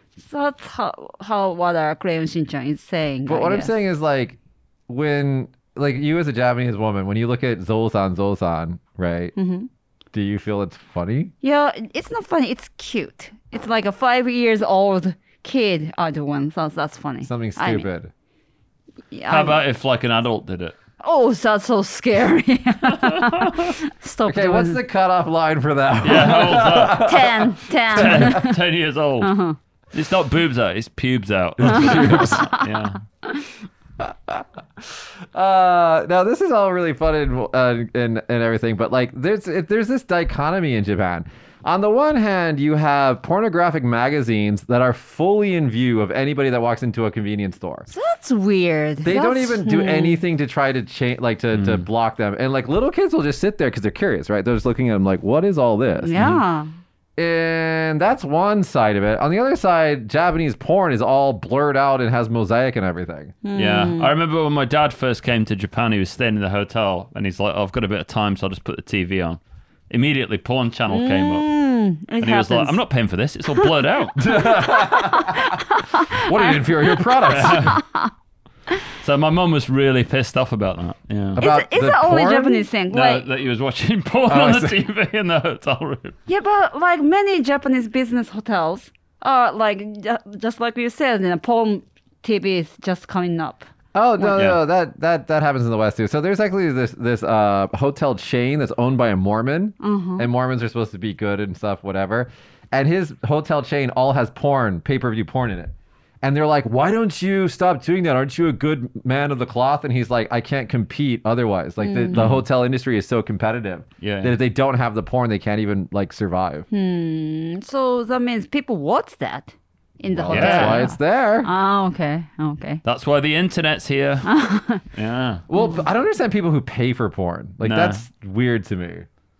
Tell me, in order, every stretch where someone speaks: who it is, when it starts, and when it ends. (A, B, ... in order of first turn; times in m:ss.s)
0:00.2-0:03.8 A
0:03.3-0:09.3 B
0:09.4-0:09.7 A
0:10.1-0:11.3 B
0:11.4-0:17.9 A
0:17.2-0:18.1 B
0:19.1-0:19.6 A
0:19.3-0:20.8 C
0:21.0-0:24.8 A
0:22.8-0:23.7 C
0:24.3-0:28.5 B
0:26.0-0:27.1 C
0:26.9-0:28.6 A
0:27.9-0:29.3 C
0:29.2-0:29.6 A
0:29.9-0:33.0 C
0:31.6-0:32.5 B
0:31.7-0:32.7 A
0:34.0-0:47.9 B
0:47.9-0:50.2 A
0:49.0-0:56.2 B
0:51.5-0:51.9 C
0:56.0-0:56.7 A
0:56.2-0:56.4 C
0:57.2-1:03.4 B
1:03.4-1:04.1 A
1:03.6-1:11.5 C
1:10.9-1:12.8 A
1:12.2-1:14.2 C
1:14.2-1:17.8 B
1:14.5-1:18.1 A
1:17.3-1:17.8 C
1:19.0-1:21.4 C
1:21.4-1:22.6 B
1:21.4-1:23.3 A
1:22.9-1:26.2 C
1:24.3-1:24.8 B
1:26.3-1:33.7 A
1:33.9-1:56.7 B
1:39.8-1:40.3 A
1:51.8-1:52.3 A
1:52.1-1:52.4 C
1:54.0-1:54.4 C
1:56.7-2:02.8 A
2:00.1-2:01.5 B
2:00.3-2:00.9 C
2:02.8-2:04.3 C
2:04.3-2:04.8 A
2:04.9-2:05.4 C
2:05.5-2:09.1 B
2:05.5-2:05.8 A
2:07.6-2:08.0 C